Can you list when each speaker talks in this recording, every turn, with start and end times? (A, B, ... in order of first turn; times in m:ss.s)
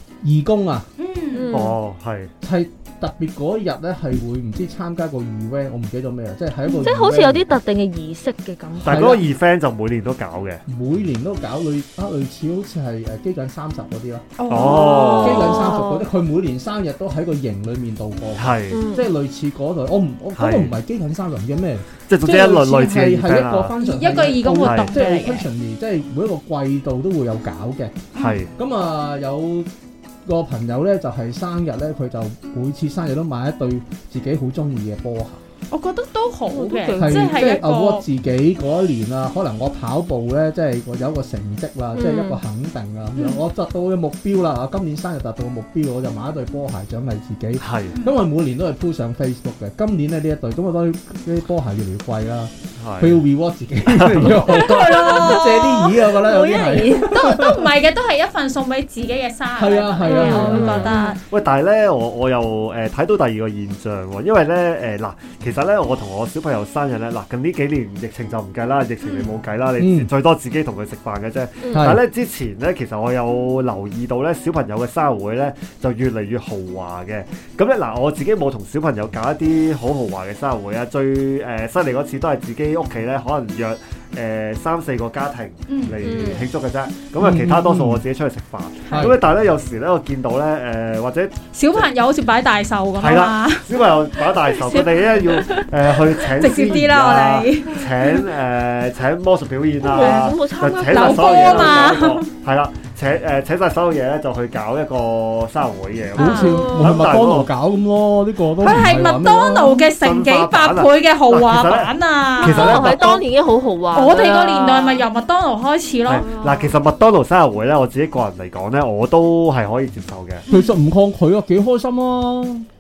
0:00.2-0:00.9 A
0:01.0-0:01.6 B
0:01.3-0:01.8 C
0:01.5-0:02.3 D
0:02.4-0:07.4 A
0:06.8-0:09.2 C
0:08.8-0:10.6 D
0:08.8-0:09.2 A
0:10.7-0:29.7 A
0:14.4-0:15.3 B
0:14.5-0:15.6 D
0:14.6-0:16.1 C
0:18.4-0:18.8 D
0:18.7-0:19.1 C
0:20.4-0:20.7 D
0:22.1-0:23.7 D
0:23.8-0:25.5 B
0:24.6-0:25.1 D
0:28.2-0:28.5 D
0:30.2-0:35.4 A
0:35.7-0:38.0 B
0:36.5-0:37.5 C
0:36.9-0:57.7 A
0:42.0-0:42.4 C
0:43.2-0:43.4 B
0:47.6-0:48.0 D
0:52.8-0:53.2 D
0:53.9-0:54.5 D
0:54.4-0:56.1 B
0:54.8-0:55.4 C
0:56.1-0:57.2 C
0:57.0-1:01.2 B
0:59.6-1:01.0 A
1:00.0-1:01.2 C
1:01.3-1:31.9 D
1:09.0-1:09.3 B
1:09.8-1:10.1 A
1:11.7-1:12.0 A
1:25.7-1:26.0 B
1:26.0-1:26.5 C
1:27.2-1:28.0 A
1:28.9-1:29.2 B
1:28.9-1:29.2 A
1:31.5-1:33.8 B
1:33.0-1:47.5 D
1:34.5-1:36.5 C
1:36.4-1:38.3 B
1:39.8-1:42.1 C
1:40.0-1:40.4 B
1:40.9-1:42.3 B
1:46.2-1:46.7 B
1:46.2-1:49.9 A
1:46.5-1:47.0 C
1:48.6-1:53.1 B
1:50.0-1:53.2 D
1:52.4-1:55.1 C
1:53.9-1:56.3 B
1:56.1-2:00.4 D
1:56.2-1:56.7 C
2:00.5-2:00.8 B
2:00.5-2:02.7 A